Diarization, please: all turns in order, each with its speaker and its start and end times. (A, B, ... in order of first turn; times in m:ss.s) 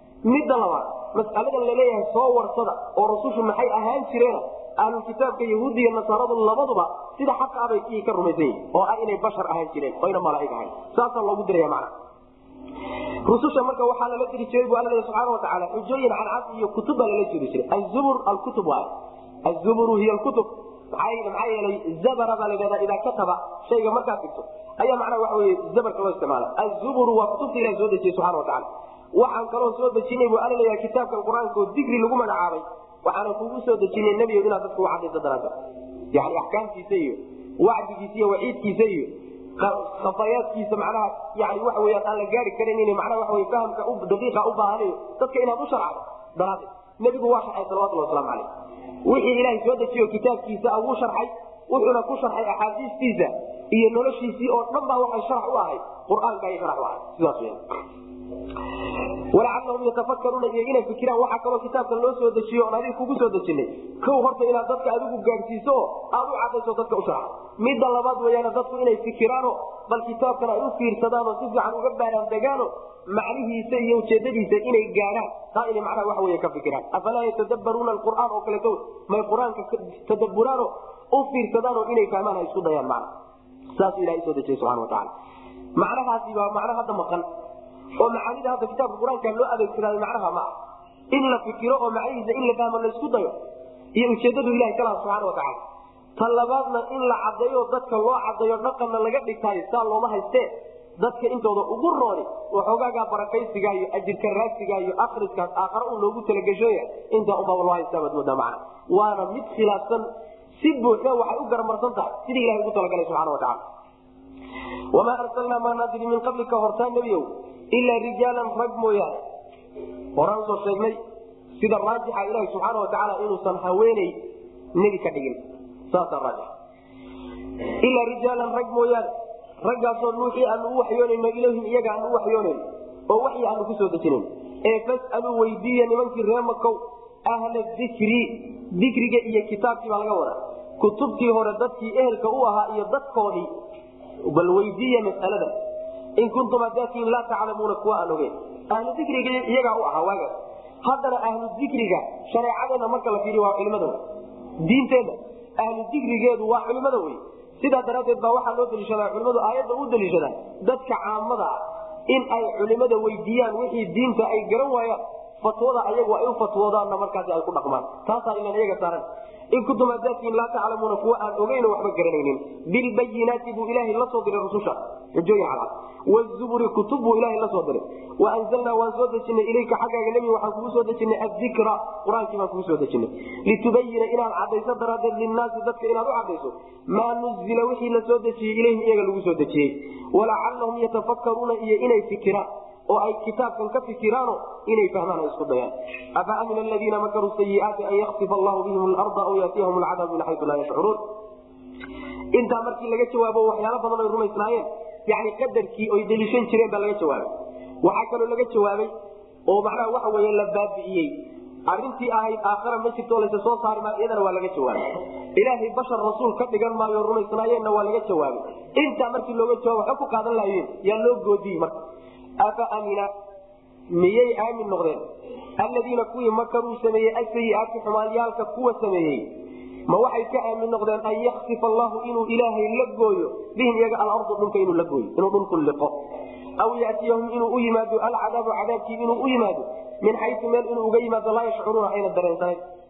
0:00.2-0:11.9 A
0:13.2-0:18.9 A
0:19.4-0:35.6 A
0:36.1-0:48.5 A
0:49.0-0:57.6 A
0:59.3-1:23.1 A
1:23.8-1:25.1 A
1:25.8-1:27.2 A
1:28.0-1:30.5 A
1:31.1-1:33.4 A
1:34.0-1:35.6 A
1:36.2-1:50.1 A
1:50.6-1:53.6 A
1:54.9-1:59.2 A
2:00.2-2:01.0 A
2:01.6-2:04.2 A
2:04.8-2:06.5 A
2:07.8-2:09.1 A
2:09.6-2:23.5 A
2:24.2-2:25.6 A
2:26.2-2:34.0 A
2:34.6-3:21.0 A
3:22.3-3:27.3 A
3:27.8-3:28.9 A
3:29.5-3:34.8 A
3:35.4-3:41.8 A
3:42.4-3:43.1 A
3:43.9-3:45.0 A
3:45.6-3:49.3 A
3:49.9-3:56.0 A
3:56.6-4:02.6 A